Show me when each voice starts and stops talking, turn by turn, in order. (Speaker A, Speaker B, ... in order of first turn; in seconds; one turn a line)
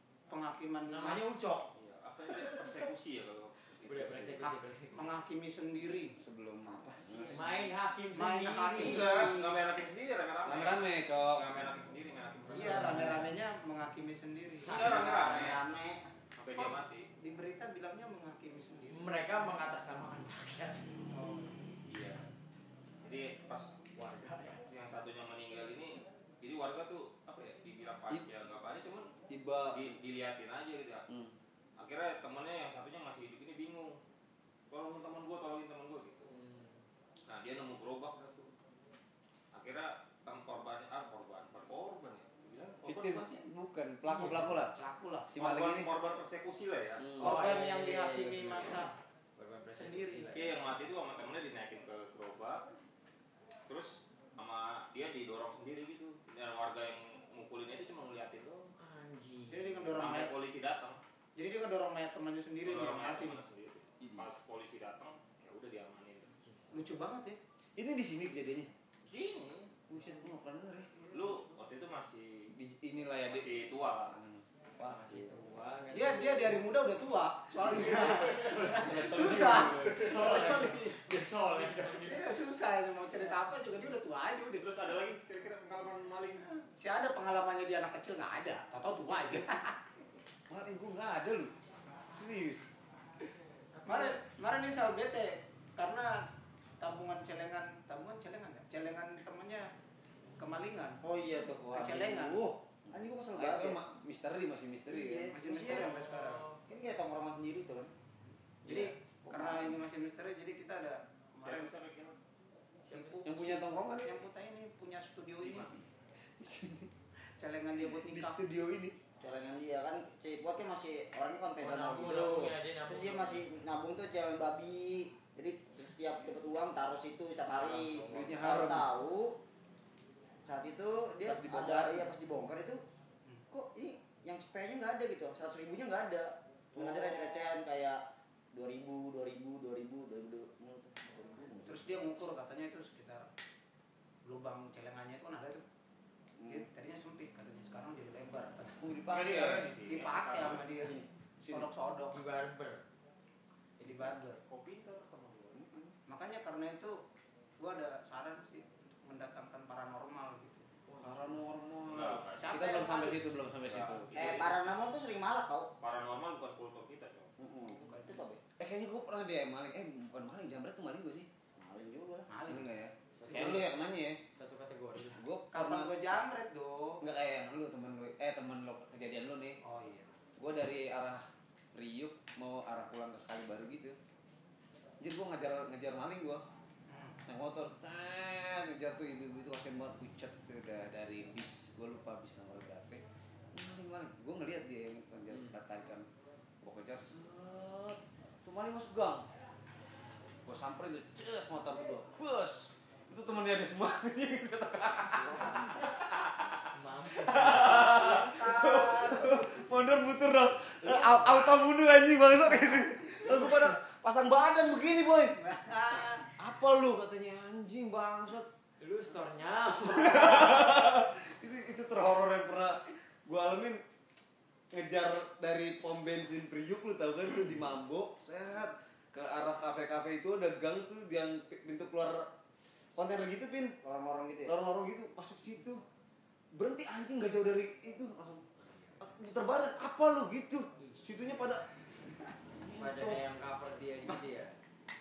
Speaker A: 0.3-1.2
Speaker B: 0.9-1.7
Speaker C: 1.8-4.2
Speaker B: 2.3-2.9
Speaker B: 3.8-5.1
Speaker A: 4.4-6.2
Speaker D: 6.2-7.5
Speaker B: 7.3-9.5
Speaker A: 8.1-9.4
Speaker C: 8.8-13.1
Speaker D: 10.5-11.5
Speaker B: 12.5-13.3
Speaker A: 12.5-14.9
Speaker C: 14.6-15.6
Speaker E: 14.7-16.1
Speaker C: 16.4-17.1
Speaker A: 16.6-19.1
Speaker B: 18.9-21.0
Speaker A: 21.1-21.6
Speaker C: 21.9-22.2
Speaker C: 23.0-23.7
Speaker B: 23.9-24.6
Speaker C: 24.7-29.1
Speaker D: 29.3-30.0
Speaker C: 29.7-31.1
Speaker D: 31.1-31.3
Speaker C: 31.8-34.0
Speaker C: 34.7-36.3
Speaker B: 36.3-36.8
Speaker C: 37.3-38.5
Speaker C: 39.5-43.4
Speaker D: 42.8-44.8
Speaker B: 44.1-44.7
Speaker A: 44.7-45.3
Speaker D: 45.3-45.9
Speaker C: 45.4-47.1
Speaker D: 47.0-47.3
Speaker A: 47.2-48.9
Speaker B: 47.2-50.7
Speaker A: 49.7-50.4
Speaker C: 50.3-52.6
Speaker C: 53.7-58.7
Speaker B: 58.8-59.9
Speaker A: 59.5-60.3
Speaker C: 59.9-61.0
Speaker A: 61.4-63.4
Speaker C: 62.6-66.3
Speaker D: 64.0-64.3
Speaker B: 66.4-66.9
Speaker A: 66.7-67.4
Speaker D: 67.8-68.7
Speaker C: 69.0-69.7
Speaker D: 69.9-70.9
Speaker C: 71.1-72.5
Speaker D: 72.5-73.6
Speaker C: 73.2-74.2
Speaker D: 74.1-75.3
Speaker B: 74.9-76.7
Speaker A: 75.9-81.0
Speaker B: 77.6-82.3
Speaker D: 78.5-80.1
Speaker A: 81.9-84.7
Speaker C: 84.6-86.5
Speaker A: 86.7-89.8
Speaker D: 90.5-91.5
Speaker D: 92.1-92.7
Speaker B: 93.7-94.2
Speaker A: 93.8-96.2
Speaker A: 96.8-99.7
Speaker A: 100.4-101.0
Speaker E: 101.0-103.8
Speaker A: 101.7-102.5
Speaker D: 103.3-105.3
Speaker E: 104.9-105.9
Speaker A: 105.3-106.5
Speaker B: 105.6-106.6
Speaker E: 106.7-107.9
Speaker A: 108.7-111.7
Speaker E: 108.7-109.8
Speaker C: 111.4-112.2
Speaker B: 112.8-113.2
Speaker A: 112.9-115.7
Speaker D: 113.2-114.2
Speaker D: 115.5-115.8
Speaker D: 116.4-116.9
Speaker A: 117.4-118.4
Speaker D: 118.0-119.0
Speaker E: 119.2-129.4
Speaker B: 121.6-123.5
Speaker B: 127.5-128.3
Speaker D: 128.1-128.9
Speaker E: 130.5-132.8
Speaker D: 131.2-132.1
Speaker E: 133.5-138.0
Speaker E: 138.5-141.9
Speaker A: 141.6-143.3
Speaker A: 144.2-145.6
Speaker A: 146.4-152.2
Speaker D: 148.8-149.7
Speaker C: 149.1-150.9
Speaker D: 151.4-151.7
Speaker B: 152.1-152.8
Speaker A: 153.8-154.4
Speaker C: 154.4-155.6
Speaker E: 155.6-155.9
Speaker A: 156.1-157.0
Speaker A: 157.6-160.7
Speaker B: 160.9-161.3
Speaker D: 161.0-164.1
Speaker C: 161.9-162.8
Speaker A: 162.4-163.2
Speaker C: 163.6-164.6
Speaker E: 164.2-165.7
Speaker C: 165.8-167.3
Speaker E: 167.4-168.4
Speaker A: 167.8-168.1
Speaker D: 168.6-171.3
Speaker E: 171.6-172.3
Speaker A: 172.3-172.7
Speaker D: 172.5-174.2
Speaker B: 173.2-173.7
Speaker A: 173.3-173.6
Speaker B: 174.3-175.2
Speaker D: 175.2-175.9
Speaker A: 175.5-177.0
Speaker D: 177.0-179.6
Speaker A: 179.6-180.1
Speaker D: 180.4-184.0
Speaker D: 185.0-186.4
Speaker A: 186.9-187.2
Speaker D: 187.3-196.1
Speaker D: 196.6-199.2
Speaker D: 200.4-206.6
Speaker E: 205.2-205.9
Speaker B: 206.7-208.0
Speaker D: 207.1-215.4
Speaker A: 207.5-209.4
Speaker B: 210.9-211.4
Speaker A: 215.4-216.3
Speaker D: 216.4-218.5
Speaker B: 218.8-220.8
Speaker D: 219.9-223.8
Speaker D: 224.7-232.3
Speaker D: 233.0-233.8
Speaker E: 233.8-234.6
Speaker D: 234.5-235.8
Speaker D: 236.5-238.4
Speaker B: 238.7-239.0
Speaker D: 239.0-241.6
Speaker B: 240.8-241.3
Speaker D: 242.6-243.2
Speaker B: 242.8-244.6